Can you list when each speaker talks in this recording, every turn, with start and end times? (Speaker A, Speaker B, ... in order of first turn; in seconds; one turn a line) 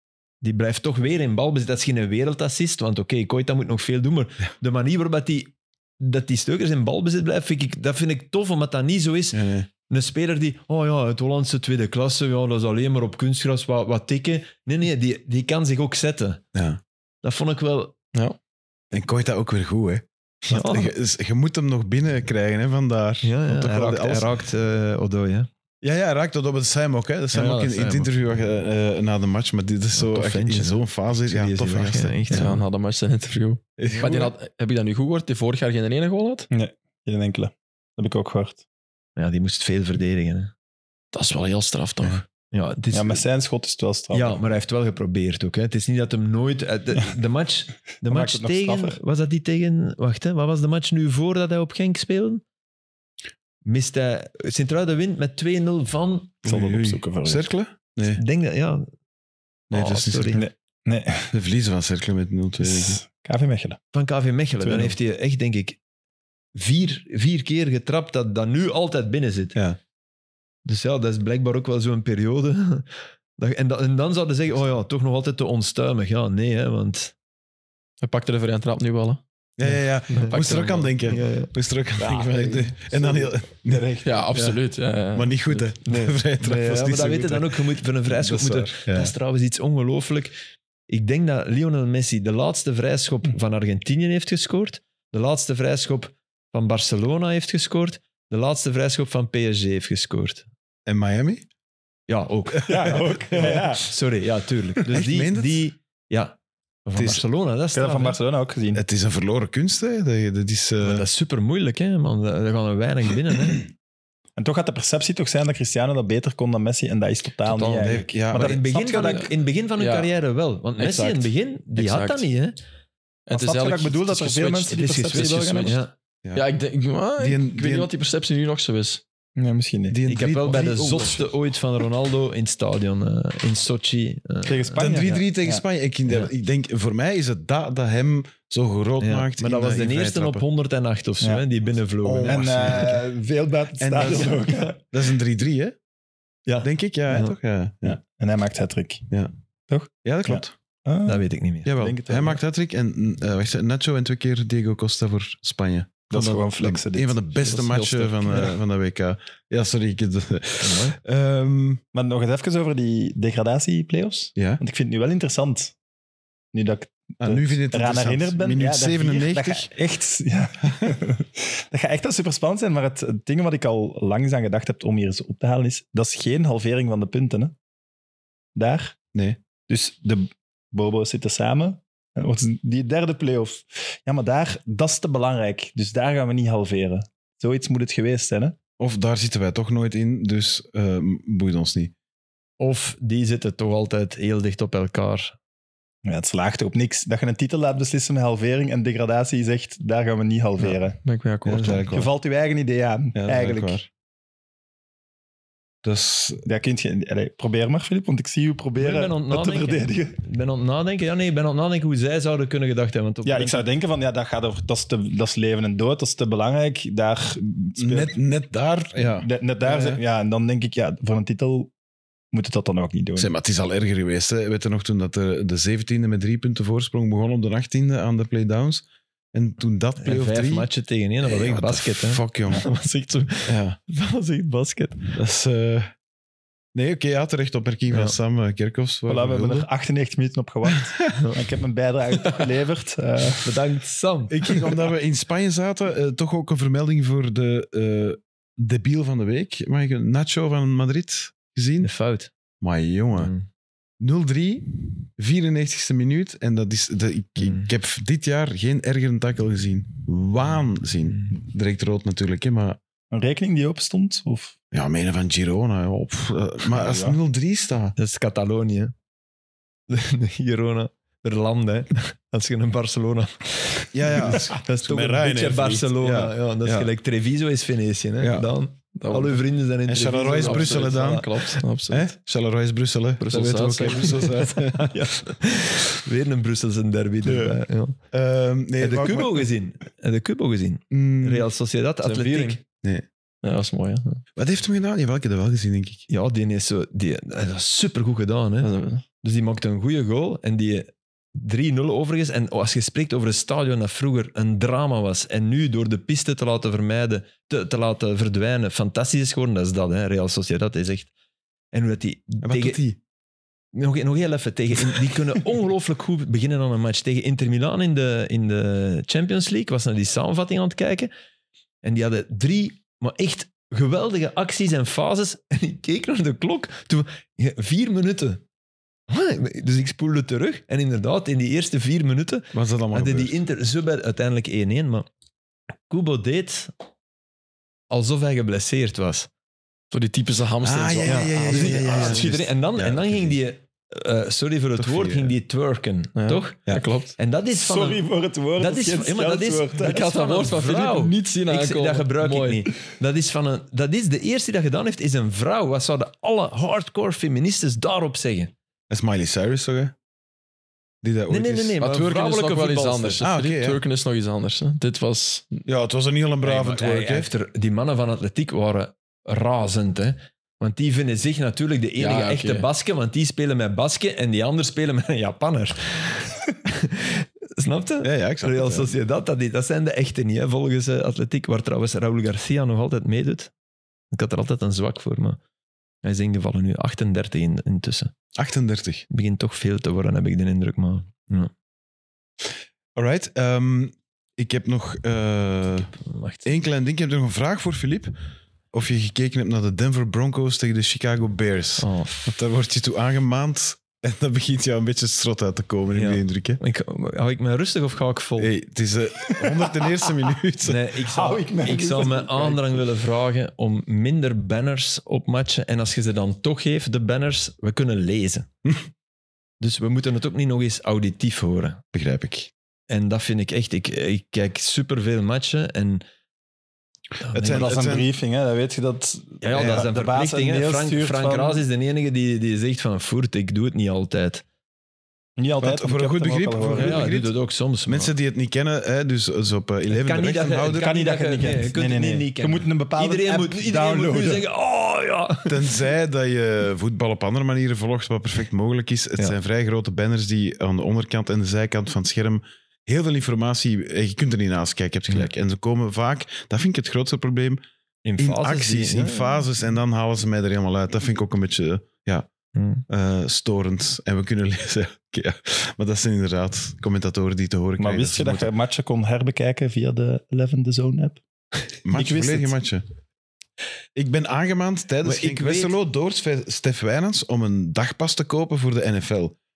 Speaker A: 0.4-16.4
Speaker B: 9.3-9.7
Speaker B: 16.5-16.8
Speaker A: 17.2-17.9
Speaker B: 18.9-24.3
Speaker A: 20.5-20.9
Speaker A: 23.2-25.5
Speaker B: 25.8-32.6
Speaker A: 27.3-28.1
Speaker A: 30.0-32.6
Speaker C: 32.3-36.5
Speaker B: 33.8-34.3
Speaker D: 36.5-38.6
Speaker A: 39.2-40.5
Speaker C: 41.1-42.2
Speaker A: 42.5-43.2
Speaker D: 42.9-44.4
Speaker A: 44.1-52.4
Speaker D: 48.1-49.0
Speaker A: 53.6-56.4
Speaker D: 56.4-57.5
Speaker B: 56.4-58.2
Speaker A: 58.1-58.9
Speaker A: 59.7-60.4
Speaker B: 59.7-60.4
Speaker D: 60.3-61.3
Speaker B: 61.3-63.0
Speaker D: 62.6-63.8
Speaker A: 63.9-65.8
Speaker D: 64.6-65.0
Speaker A: 66.5-69.5
Speaker A: 70.7-77.1
Speaker C: 78.0-79.2
Speaker B: 79.6-84.0
Speaker C: 80.1-80.9
Speaker A: 80.2-81.5
Speaker D: 82.0-83.3
Speaker C: 84.0-85.6
Speaker B: 85.1-89.1
Speaker A: 85.8-90.3
Speaker A: 90.9-100.5
Speaker B: 100.9-101.5
Speaker A: 102.1-108.2
Speaker D: 102.7-103.9
Speaker B: 102.8-103.7
Speaker B: 104.9-105.6
Speaker B: 107.0-107.2
Speaker D: 107.7-108.8
Speaker B: 108.7-111.1
Speaker A: 110.8-113.7
Speaker D: 114.4-119.3
Speaker A: 117.5-122.6
Speaker B: 117.8-118.6
Speaker C: 119.8-120.1
Speaker C: 120.8-122.3
Speaker C: 123.3-125.8
Speaker D: 123.3-125.8
Speaker A: 124.7-125.9
Speaker C: 126.3-129.0
Speaker B: 127.2-127.9
Speaker D: 129.4-130.0
Speaker B: 129.9-131.3
Speaker A: 130.1-135.2
Speaker D: 134.4-135.6
Speaker B: 134.8-140.4
Speaker A: 139.0-142.9
Speaker B: 142.0-143.0
Speaker D: 142.2-144.8
Speaker B: 143.8-145.8
Speaker A: 144.2-144.6
Speaker A: 146.5-147.3
Speaker B: 146.6-148.0
Speaker D: 147.8-149.1
Speaker D: 149.7-152.4
Speaker B: 150.0-150.5
Speaker A: 151.1-151.7
Speaker B: 151.7-161.8
Speaker D: 156.1-157.2
Speaker C: 157.4-158.5
Speaker A: 160.6-161.0
Speaker D: 161.9-165.8
Speaker B: 164.4-164.6
Speaker D: 166.5-177.5
Speaker B: 167.2-169.7
Speaker D: 178.6-179.0
Speaker B: 179.1-179.4
Speaker D: 179.7-188.6
Speaker B: 188.8-191.9
Speaker A: 192.6-195.3
Speaker D: 196.1-201.0
Speaker C: 201.0-201.8
Speaker B: 201.4-202.1
Speaker D: 201.9-203.9
Speaker B: 203.2-203.8
Speaker B: 205.8-206.4
Speaker D: 206.4-210.2
Speaker A: 208.8-213.7
Speaker D: 213.2-218.2
Speaker B: 217.8-219.3
Speaker D: 219.2-221.7
Speaker D: 222.3-223.3
Speaker B: 223.2-230.7
Speaker A: 230.0-235.2
Speaker B: 231.2-232.7
Speaker B: 233.5-233.8
Speaker B: 235.2-235.9
Speaker B: 236.7-239.7
Speaker A: 237.9-238.2
Speaker D: 239.1-243.5
Speaker A: 243.4-244.7
Speaker B: 244.3-251.9
Speaker A: 251.8-252.3
Speaker B: 252.6-253.3
Speaker A: 253.2-253.5
Speaker B: 254.0-262.8
Speaker A: 257.4-257.7
Speaker D: 263.1-264.6
Speaker B: 264.7-267.9
Speaker D: 266.8-267.2
Speaker A: 268.0-268.9
Speaker A: 269.9-281.6
Speaker B: 273.9-276.9
Speaker B: 278.2-278.5
Speaker C: 279.0-279.4
Speaker B: 279.9-281.3
Speaker C: 279.9-282.1
Speaker B: 281.9-285.1
Speaker C: 283.2-284.3
Speaker A: 283.3-288.0
Speaker B: 287.2-287.6
Speaker B: 288.1-289.5
Speaker A: 288.8-292.6
Speaker B: 290.9-291.5
Speaker C: 292.0-292.6
Speaker C: 293.4-294.2
Speaker B: 294.4-296.1
Speaker A: 296.1-311.1
Speaker C: 298.6-299.0
Speaker A: 311.7-312.9
Speaker B: 312.4-313.0
Speaker A: 313.7-321.1
Speaker A: 321.8-328.4
Speaker A: 329.1-335.1
Speaker B: 332.5-333.4
Speaker A: 335.9-336.7
Speaker A: 337.9-339.3
Speaker C: 339.9-342.4
Speaker B: 340.6-343.4
Speaker A: 341.0-348.1
Speaker B: 344.8-345.4
Speaker C: 346.2-347.1
Speaker D: 347.6-350.1
Speaker A: 348.6-358.5
Speaker C: 349.8-352.7
Speaker B: 358.9-359.9
Speaker B: 361.0-361.8
Speaker A: 361.3-363.2
Speaker C: 361.8-365.6
Speaker B: 363.2-363.8
Speaker B: 365.7-367.3
Speaker A: 366.4-383.5
Speaker C: 372.0-372.7
Speaker B: 378.0-378.9
Speaker A: 384.1-385.4
Speaker A: 386.0-388.1
Speaker B: 388.4-389.1
Speaker A: 389.1-391.5
Speaker B: 393.0-395.9
Speaker A: 396.0-396.5
Speaker B: 396.4-398.1
Speaker B: 398.7-406.6
Speaker A: 401.8-402.4
Speaker A: 405.9-408.5
Speaker B: 408.4-410.9
Speaker D: 409.4-409.9
Speaker A: 410.6-418.5
Speaker D: 411.1-412.8
Speaker A: 419.6-421.8
Speaker B: 421.9-422.5
Speaker A: 422.9-426.0
Speaker A: 427.2-427.7
Speaker B: 427.3-428.1
Speaker D: 427.5-431.6
Speaker A: 429.4-434.4
Speaker B: 429.6-429.8
Speaker D: 435.4-437.1
Speaker B: 435.6-441.0
Speaker A: 436.7-438.1
Speaker A: 439.9-445.8
Speaker D: 440.7-444.4
Speaker B: 445.5-457.6
Speaker A: 458.1-459.5
Speaker B: 458.2-462.3
Speaker A: 462.5-462.8
Speaker B: 462.9-468.5
Speaker D: 467.8-471.2
Speaker B: 471.8-472.8
Speaker D: 471.9-472.6
Speaker B: 473.9-479.4
Speaker A: 475.0-475.7